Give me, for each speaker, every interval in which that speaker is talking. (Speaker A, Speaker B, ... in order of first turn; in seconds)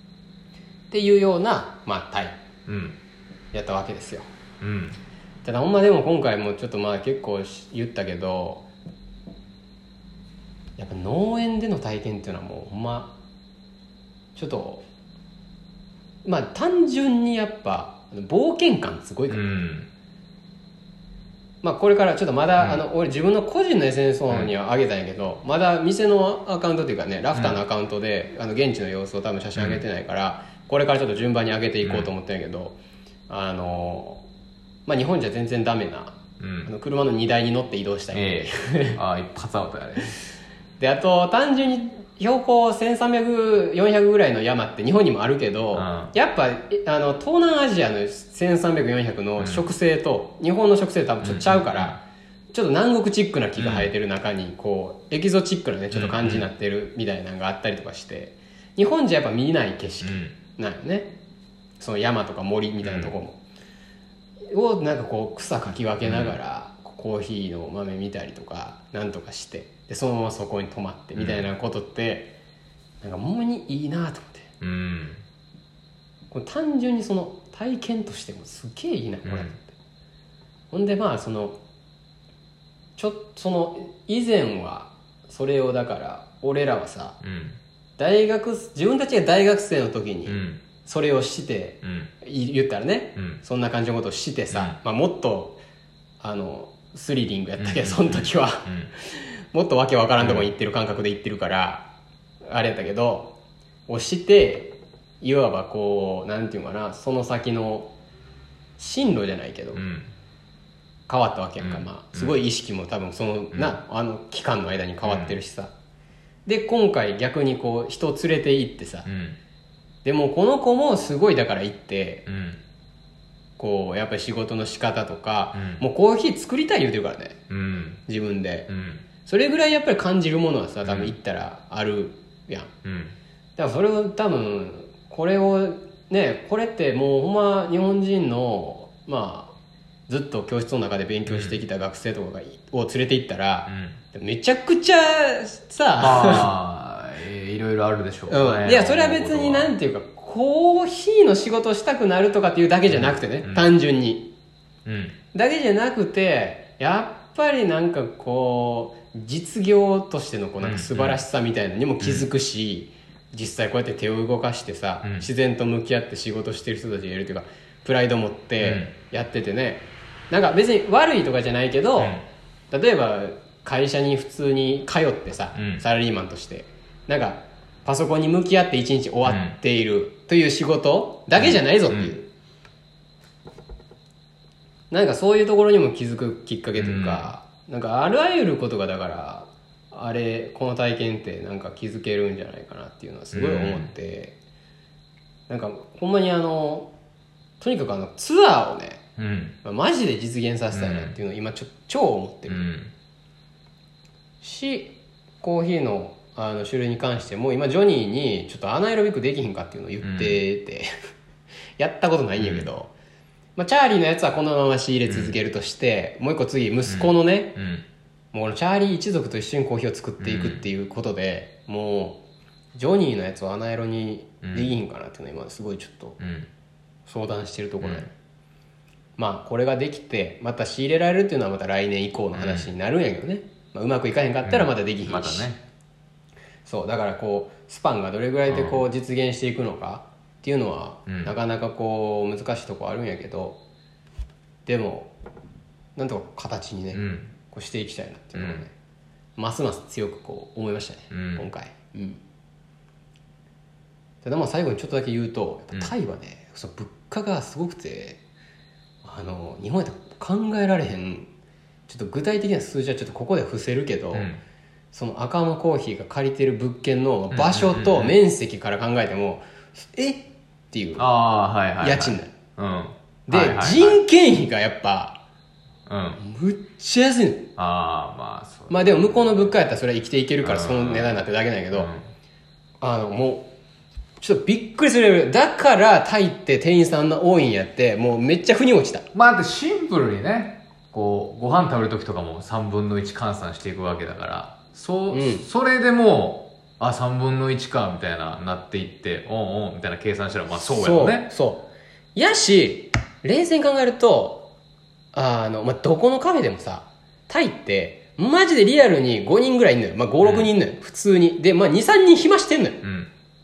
Speaker A: 0.9-2.4, 3.5-4.3, 5.4-8.6, 10.8-13.1, 14.3-14.8, 16.2-19.4, 21.6-32.8, 33.3-34.2, 34.9-39.0, 40.8-52.0, 52.5-61.1, 61.8-63.4, 64.5-72.3, 73.0-74.5, 76.3-79.7, 80.7-81.6, 83.0-87.2, 88.0-95.6, 96.2-101.8, 102.5-103.3, 103.9-107.9, 108.8-109.8, 111.1-115.7, 116.5-119.0, 120.0-122.2, 123.6-127.4, 128.1-128.7, 129.2-132.7, 133.6-139.5, 140.1-146.5, 148.3-154.3, 155.3-172.2, 172.7-182.3, 184.9-194.3, 195.5-196.9, 197.6-199.0, 199.6-202.6, 204.4-210.9, 211.8-212.9, 213.6-217.6, 218.3-222.2, 222.7-226.2, 227.1-228.1, 229.2-235.5, 236.6-243.6, 244.7-245.1, 245.9-248.7, 249.4-252.2, 254.2-258.2, 259.0-261.3, 261.9-264.3, 264.9-271.1, 271.8-272.3, 273.3-275.2, 276.2-277.5, 278.7-281.9, 282.8-283.5, 284.2-289.1, 295.1-295.4, 300.5-304.5, 305.1-312.8
Speaker B: 2.7-3.0, 4.6-5.0, 19.3-19.9, 29.5-29.8, 31.8-32.1, 36.4-36.7, 38.1-40.2, 45.7-46.1, 49.4-49.6, 51.2-52.0, 53.6-53.9, 55.9-56.5, 60.0-60.3, 62.8-63.1, 66.0-66.3, 71.2-71.5, 74.6-75.2, 79.2-79.5, 87.2-87.6, 90.2-90.6, 91.8-92.1, 93.2-93.4, 94.5-94.8, 97.6-98.9, 100.2-100.5, 109.7-110.1, 111.6-112.4, 115.0-115.4, 119.0-119.4, 122.2-122.6, 125.5-125.8, 127.5-128.0, 128.7-129.0, 130.8-131.1, 132.8-133.1, 141.3-141.6, 143.7-144.0, 146.0-149.7, 152.9-153.7, 154.8-155.2, 160.6-161.2, 162.0-162.3, 165.0-165.3, 168.6-168.9, 172.0-172.2, 175.5-175.8, 179.2-179.6, 181.4-182.1, 186.8-187.3, 193.3-193.9, 199.2-199.5, 200.7-201.2, 202.5-202.9, 210.0-210.4, 212.4-212.7, 215.1-215.3, 216.9-217.8, 220.2-220.6, 224.4-224.7, 226.2-226.5, 227.8-228.1, 232.3-232.7, 234.4-235.6, 238.5-238.8, 241.1-241.3, 246.9-247.3, 248.4-248.6, 251.1-251.5, 264.1-264.4, 267.3-268.2, 271.0-274.0, 275.9-276.2, 277.6-279.5, 280.4-282.0, 289.1-301.3, 310.2-310.5, 312.8-313.1